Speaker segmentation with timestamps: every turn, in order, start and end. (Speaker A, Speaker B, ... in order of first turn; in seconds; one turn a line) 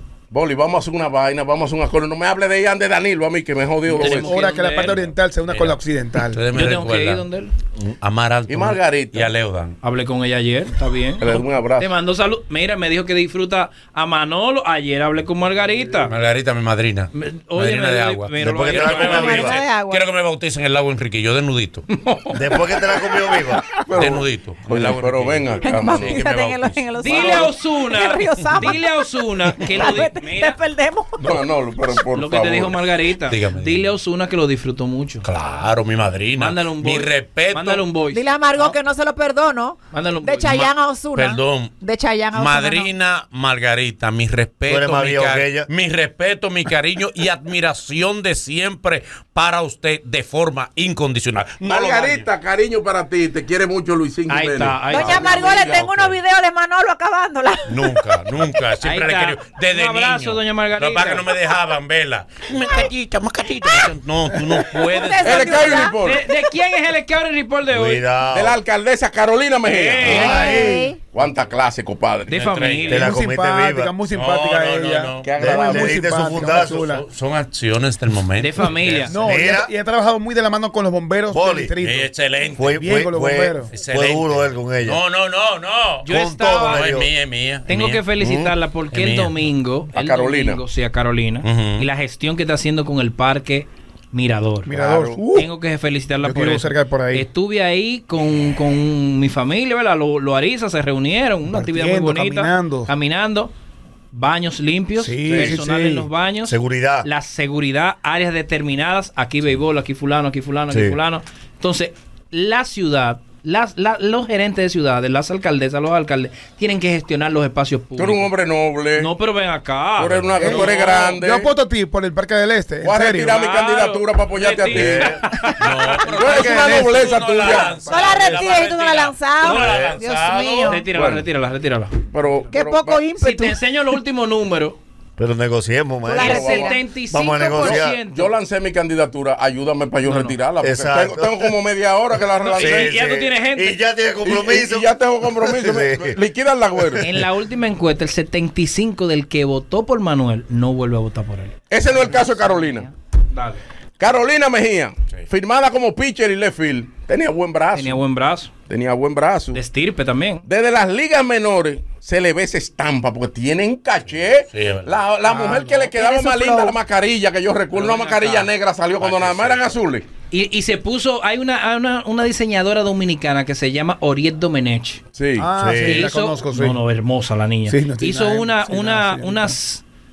Speaker A: 0.3-4.4
Speaker B: 3.9-5.1
Speaker C: 3.9-6.4
Speaker D: 5.5-5.8
Speaker D: 6.3-7.2
Speaker B: 6.5-7.5
Speaker D: 8.0-9.8
Speaker A: 8.5-9.3
Speaker B: 9.8-16.1
Speaker A: 11.2-11.9
Speaker D: 16.1-21.8
Speaker B: 17.1-19.5
Speaker E: 18.4-19.6
Speaker F: 19.1-20.1
Speaker B: 21.9-22.5
Speaker E: 22.3-23.6
Speaker A: 23.9-26.2
Speaker D: 24.0-27.5
Speaker F: 25.6-28.9
Speaker B: 27.0-30.6
Speaker F: 29.5-31.2
Speaker A: 31.2-32.8
Speaker B: 32.1-35.3
Speaker D: 33.3-33.9
Speaker D: 35.2-37.8
Speaker B: 36.4-38.7
Speaker F: 38.1-42.9
Speaker B: 39.9-40.7
Speaker D: 41.1-41.7
Speaker D: 42.3-52.3
Speaker E: 44.7-45.7
Speaker A: 51.6-55.9
Speaker B: 54.3-55.4
Speaker F: 54.9-58.0
Speaker D: 55.4-56.1
Speaker D: 57.7-65.9
Speaker B: 58.8-61.3
Speaker C: 64.4-64.6
Speaker F: 64.7-66.0
Speaker A: 65.2-66.2
Speaker B: 65.9-68.0
Speaker E: 67.7-68.6
Speaker A: 68.3-70.5
Speaker B: 69.6-70.7
Speaker C: 70.1-70.9
Speaker F: 70.1-71.0
Speaker A: 71.1-72.4
Speaker B: 72.3-73.2
Speaker D: 72.3-73.0
Speaker E: 72.9-73.9
Speaker C: 73.0-77.0
Speaker D: 74.1-75.3
Speaker A: 75.2-76.4
Speaker E: 75.4-76.9
Speaker D: 76.8-79.1
Speaker B: 78.4-79.1
Speaker C: 79.1-82.1
Speaker E: 79.2-79.7
Speaker E: 81.3-81.7
Speaker D: 81.8-82.8
Speaker E: 82.5-85.0
Speaker C: 82.6-83.7
Speaker D: 83.7-86.1
Speaker B: 86.0-86.9
Speaker E: 86.0-87.1
Speaker D: 86.6-88.1
Speaker B: 87.7-94.7
Speaker E: 88.2-88.5
Speaker D: 88.9-89.4
Speaker A: 89.9-90.6
Speaker D: 91.4-91.9
Speaker C: 94.7-95.5
Speaker A: 94.7-95.2
Speaker B: 95.3-103.5
Speaker C: 96.2-97.3
Speaker C: 101.5-102.9
Speaker B: 104.1-118.3
Speaker C: 105.0-106.1
Speaker A: 105.2-105.6
Speaker E: 106.4-107.1
Speaker E: 110.7-111.0
Speaker A: 118.0-119.1
Speaker B: 119.0-121.1
Speaker A: 120.0-121.5
Speaker C: 120.4-123.4
Speaker A: 122.8-125.2
Speaker B: 123.2-125.6
Speaker E: 124.7-125.2
Speaker D: 125.6-130.8
Speaker F: 125.6-126.0
Speaker A: 126.1-127.8
Speaker C: 126.2-128.3
Speaker F: 127.9-130.8
Speaker B: 129.4-129.8
Speaker E: 129.5-130.0
Speaker B: 130.6-131.9
Speaker A: 130.9-131.2
Speaker A: 132.1-133.0
Speaker F: 132.5-133.6
Speaker B: 133.2-134.8
Speaker E: 135.2-138.0
Speaker F: 136.1-136.8
Speaker B: 136.1-138.3
Speaker A: 136.2-136.8
Speaker A: 137.5-143.0
Speaker B: 140.0-140.3
Speaker E: 140.6-141.5
Speaker B: 142.4-143.8
Speaker E: 142.6-146.2
Speaker A: 144.2-147.0
Speaker B: 147.0-151.6
Speaker A: 151.7-152.9
Speaker B: 153.3-153.6
Speaker A: 154.0-158.0
Speaker B: 157.7-158.5
Speaker A: 158.7-159.6
Speaker B: 159.5-160.4
Speaker A: 160.5-170.0
Speaker D: 164.5-165.0
Speaker C: 165.2-165.9
Speaker F: 165.9-166.7
Speaker B: 167.7-168.5
Speaker D: 169.0-169.7
Speaker B: 170.3-175.0
Speaker A: 175.1-175.5
Speaker C: 175.4-176.8
Speaker E: 175.6-176.1
Speaker B: 175.8-179.8
Speaker C: 177.7-179.5